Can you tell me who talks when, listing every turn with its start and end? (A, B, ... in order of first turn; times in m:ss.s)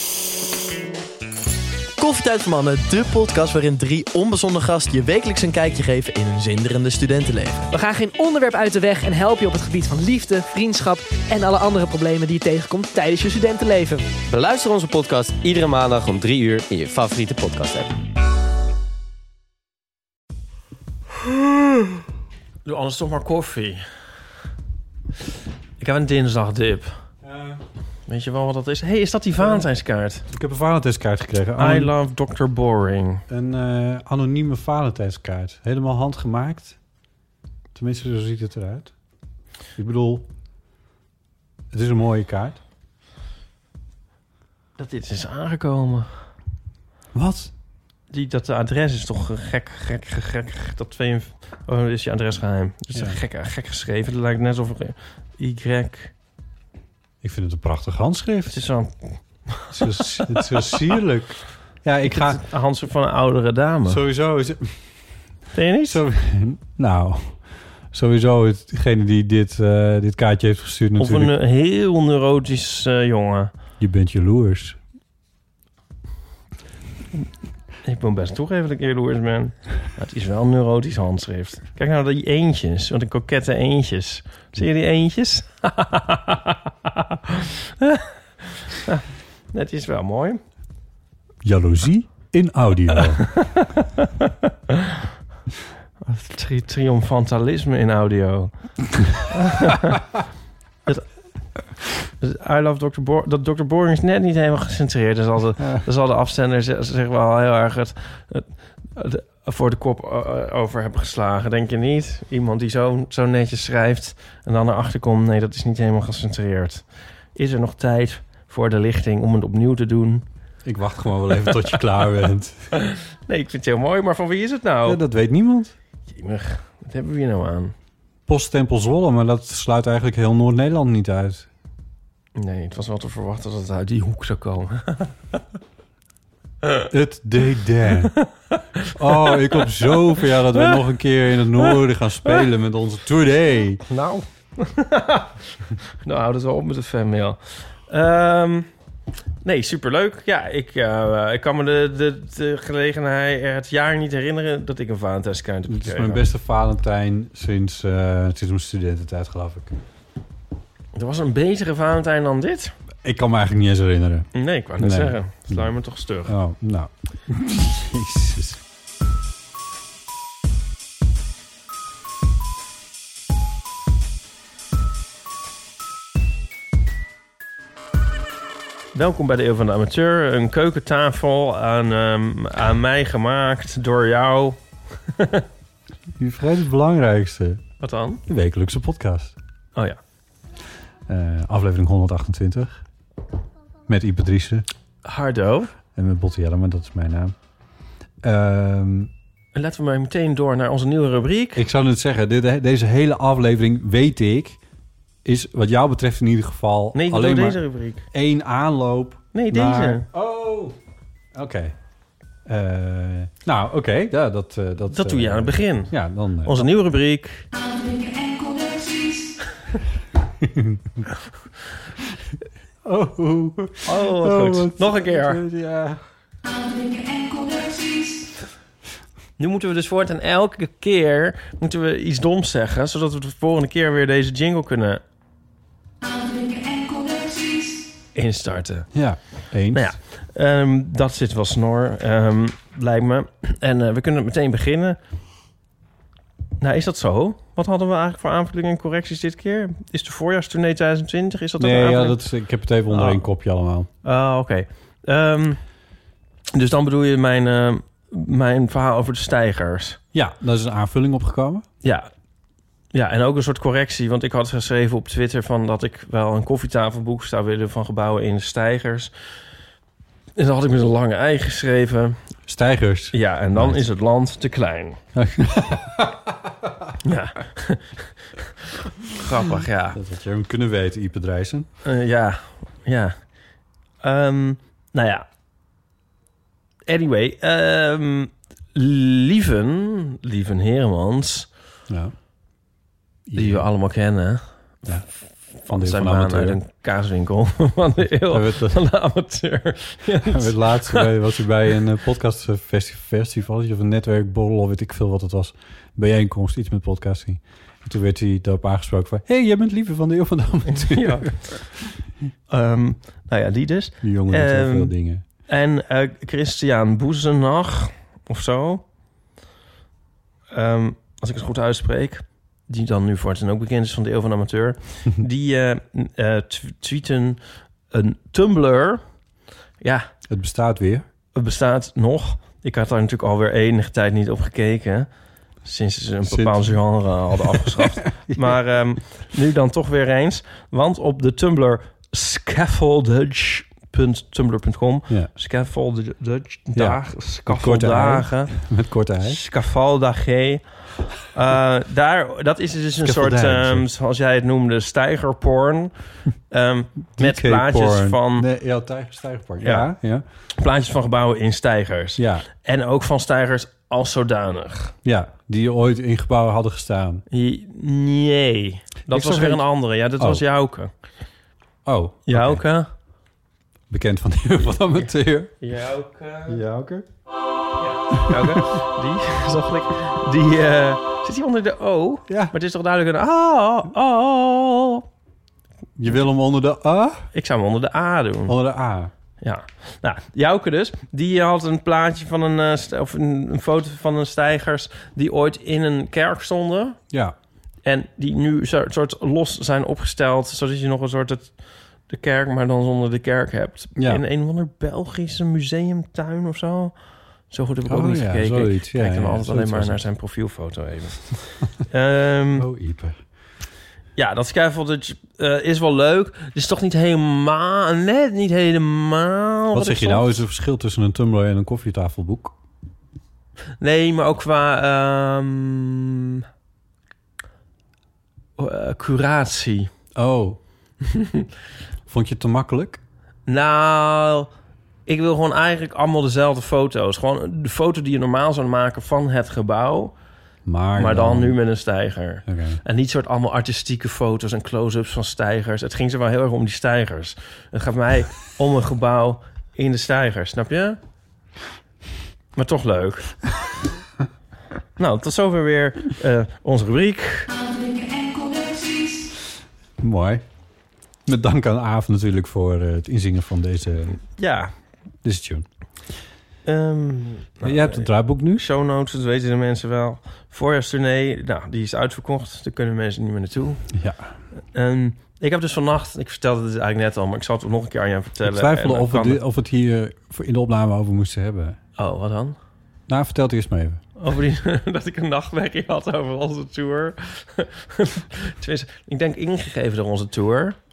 0:02.0-0:07.7 A
0:07.7-0:14.1 B
0:14.3-0:17.9 C
0:22.6-0:23.8 D
0:25.8-0:27.0 D
0:27.2-0:27.6 E
0:28.1-0:30.2 D
0:29.4-0:29.7 E
0:30.3-0:31.9 E
0:31.6-0:33.2 D
0:33.3-0:36.8 E
0:37.7-0:38.9 E
0:39.8-0:40.3 E
0:41.7-0:42.6 E
0:44.8-0:46.1 D
0:47.1-0:47.5 E
0:48.1-0:56.1 D
0:52.9-0:53.2 E
0:57.2-0:58.6 E
0:58.5-1:00.9 D
0:59.7-1:02.4 E
1:02.1-1:04.0 D
1:03.8-1:05.0 E
1:05.5-1:06.0 D
1:05.9-1:11.3 E
1:11.0-1:13.5 D
1:13.8-1:14.8 E
1:17.8-1:28.1 D
1:28.7-1:29.0 D
1:29.5-1:30.4 D
1:31.4-1:33.4 E
1:33.3-1:35.0 D
1:36.0-1:40.0 D
1:42.2-2:00.2 D
2:00.6-2:02.7 E
2:02.9-2:05.0 D
2:04.8-2:05.7 E
2:06.1-2:07.7 D
2:08.3-2:11.5 E
2:12.4-2:15.2 D
2:16.9-2:18.2 E
2:19.0-2:23.8 E
2:19.1-2:19.7 D
2:23.9-2:25.3 D
2:26.0-2:28.7 D
2:29.4-2:36.2 D
2:35.7-2:39.8 E
2:40.9-2:42.7 D
2:43.0-2:45.7 E
2:44.3-2:46.4 D
2:46.2-2:48.6 E
2:58.9-3:05.4 D
3:06.2-3:07.6 E
3:07.8-3:08.2 D
3:08.2-3:09.3 E
3:11.1-3:12.8 E
3:13.9-3:14.7 E
3:15.0-3:15.7 D
3:15.9-3:17.3 E
3:18.2-3:19.1 E
3:19.5-3:21.6 D
3:21.6-3:24.6 E
3:25.2-3:30.8 E
3:26.9-3:28.1 D
3:29.3-3:30.1 D
3:31.3-3:31.8 E
3:32.5-3:36.7 E
3:34.9-3:37.5 D
3:37.5-3:39.4 B
3:40.4-3:41.0 E
3:42.8-3:46.0 E
3:43.8-3:45.4 D
3:46.4-3:48.3 B
3:49.4-3:55.0 D
3:56.0-3:57.9 B
3:58.1-4:05.0 D
3:58.9-4:00.0 E
4:06.6-4:12.2 D
4:11.6-4:13.9 E
4:12.9-4:13.2 D
4:14.0-4:15.6 D
4:16.5-4:20.0 D
4:20.1-4:21.7 E
4:21.8-4:22.1 D
4:22.9-4:29.1 D
4:30.4-4:32.2 D
4:32.5-4:33.8 E
4:33.1-4:35.0 D
4:35.1-4:36.9 E
4:37.0-4:38.1 D
4:39.1-4:40.0 D
4:39.9-4:41.7 E
4:41.8-4:43.2 D
4:44.0-4:45.2 D
4:46.9-4:51.5 D
4:51.9-4:52.1 E
4:53.2-4:53.7 E
4:53.4-4:54.9 D
4:54.8-4:56.6 E
4:55.6-5:01.1 D
4:58.3-4:58.8 E
5:00.2-5:12.0 E
5:10.7-5:11.7 D
5:12.5-5:18.8 D
5:14.0-5:15.2 E
5:20.5-5:29.0 D
5:29.8-5:30.1 D
5:30.3-5:31.0 E
5:31.4-5:35.1 D
5:35.6-5:48.7 D
5:36.2-5:38.4 E
5:46.8-5:49.4 E
5:49.2-5:58.4 D
5:53.0-5:53.9 E
5:57.2-6:00.2 E
5:59.6-5:59.9 D
6:00.6-6:04.9 D
6:02.2-6:02.4 E
6:05.0-6:07.2 E
6:07.3-6:10.9 D
6:09.1-6:10.4 E
6:11.8-6:12.6 E
6:12.3-6:12.9 D
6:13.9-6:15.5 E
6:14.9-6:16.6 D
6:16.5-6:17.1 E
6:17.8-6:25.0 D
6:18.3-6:18.7 E
6:22.3-6:22.5 E
6:26.0-6:27.3 E
6:27.3-6:28.5 D
6:28.5-6:29.1 E
6:29.4-6:37.0 D
6:37.1-6:37.4 E
6:37.8-6:41.5 D
6:42.1-6:47.0 D
6:44.0-6:44.2 E
6:47.5-6:52.7 D
6:47.8-6:50.0 E
6:52.6-6:53.2 E
6:54.2-7:00.4 D
6:59.7-7:02.6 E
7:03.8-7:06.4 D
7:08.6-7:09.9 D
7:10.1-7:10.6 E
7:11.1-7:11.4 D
7:12.1-7:13.0 E
7:13.5-7:14.5 D
7:15.1-7:20.1 D
7:20.6-7:21.6 E
7:21.0-7:31.0 D
7:22.4-7:22.8 E
7:32.6-7:33.4 D
7:35.0-7:37.5 D
7:37.5-7:39.3 B
7:40.0-7:40.4 E
7:41.2-7:44.2 E
7:44.1-7:44.7 D
7:45.2-7:45.7 E
7:46.6-7:53.9 D
7:47.6-7:48.7 E
7:53.9-7:54.4 E
7:54.7-7:59.4 D
7:58.4-8:01.8 E
8:02.0-8:02.6 D
8:03.1-8:04.0 E
8:04.2-8:10.8 D